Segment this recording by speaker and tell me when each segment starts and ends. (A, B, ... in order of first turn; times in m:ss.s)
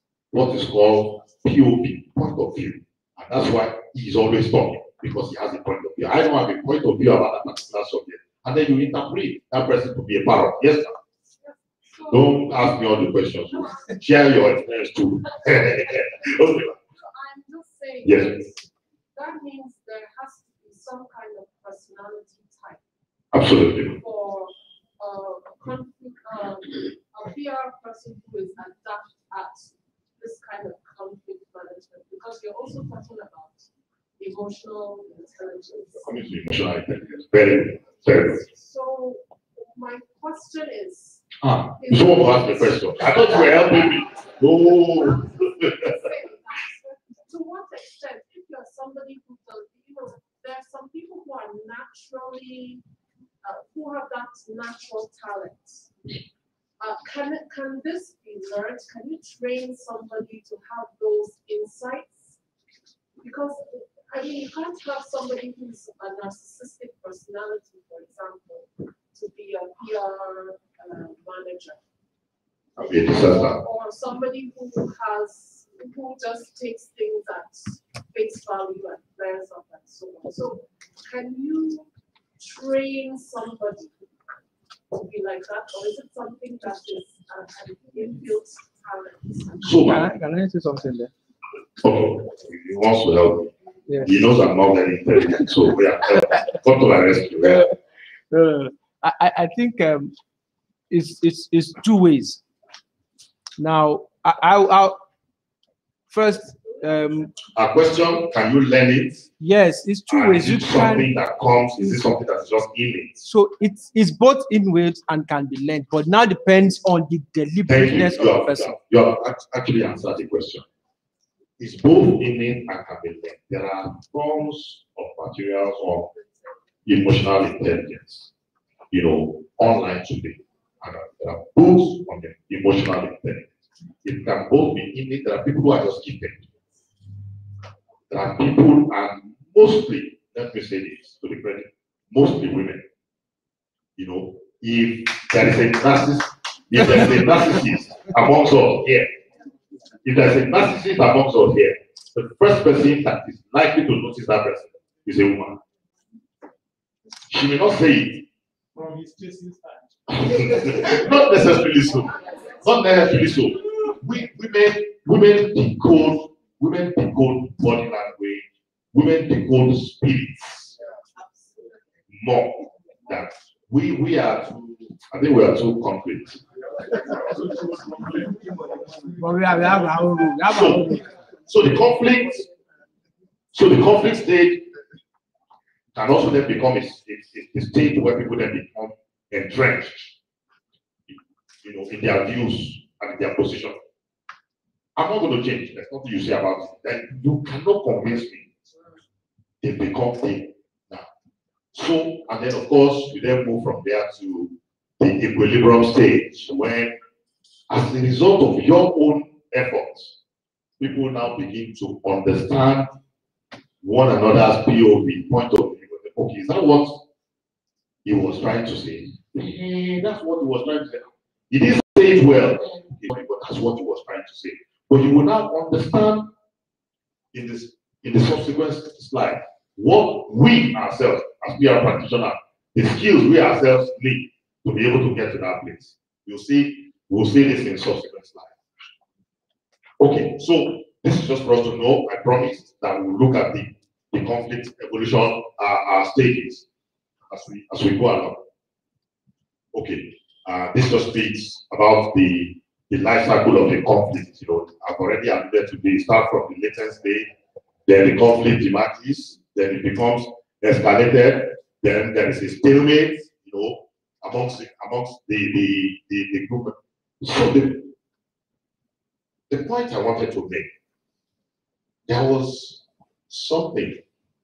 0:00.3-0:10.9 A
0:11.4-0:12.5 B
0:12.1-0:16.8 A
0:13.5-0:14.0 B
0:17.1-0:18.6 B
0:18.0-0:18.4 A
0:19.1-0:22.8 B
0:23.3-0:24.0 A
0:24.0-0:33.6 B
0:34.2-0:36.2 B
0:36.0-0:38.4 A
0:38.0-0:41.2 B
0:41.4-0:45.9 A
0:41.8-0:52.8 B
0:53.4-0:55.9 B
0:56.8-1:02.4 B
1:03.2-1:11.8 B
1:12.8-1:13.6 A
1:12.9-1:21.9 B
1:22.4-1:24.0 B
1:24.9-1:29.8 B
1:29.6-1:30.1 A
1:29.9-1:31.1 C
1:31.8-1:33.5 A
1:34.0-1:37.7 A
1:37.4-1:37.7 C
1:38.3-1:40.1 C
1:40.9-1:42.4 C
1:43.6-1:45.0 C
1:46.1-1:47.3 C
1:47.6-1:49.3 A
1:49.4-1:51.1 C
1:50.1-1:53.1 A
1:53.2-1:58.8 C
1:57.7-2:00.6 A
2:01.6-2:06.1 A
2:06.9-2:08.3 A
2:08.9-2:13.5 A
2:14.0-2:16.4 A
2:18.1-2:22.8 A
2:24.0-2:29.1 A
2:30.0-2:35.6 A
2:37.3-2:38.3 A
2:38.8-2:39.8 D
2:40.1-2:50.7 A
2:40.6-2:41.0 D
2:51.2-2:51.8 B
2:52.1-2:56.4 A
2:56.7-2:59.1 D
2:59.2-3:01.1 C
3:00.5-3:00.9 A
3:01.5-3:02.5 A
3:03.5-3:04.6 A
3:05.9-3:10.1 A
3:11.1-3:13.8 A
3:15.0-3:18.5 A
3:19.6-3:21.1 A
3:21.7-3:26.9 A
3:27.7-3:30.2 A
3:30.8-3:32.9 A
3:33.8-3:37.0 A
3:38.0-3:46.3 A
3:47.3-3:58.5 A
4:00.0-4:06.6 A
4:07.3-4:08.4 A
4:09.7-4:17.3 A
4:17.9-4:27.9 A
4:29.5-4:30.7 A
4:32.1-4:34.0 A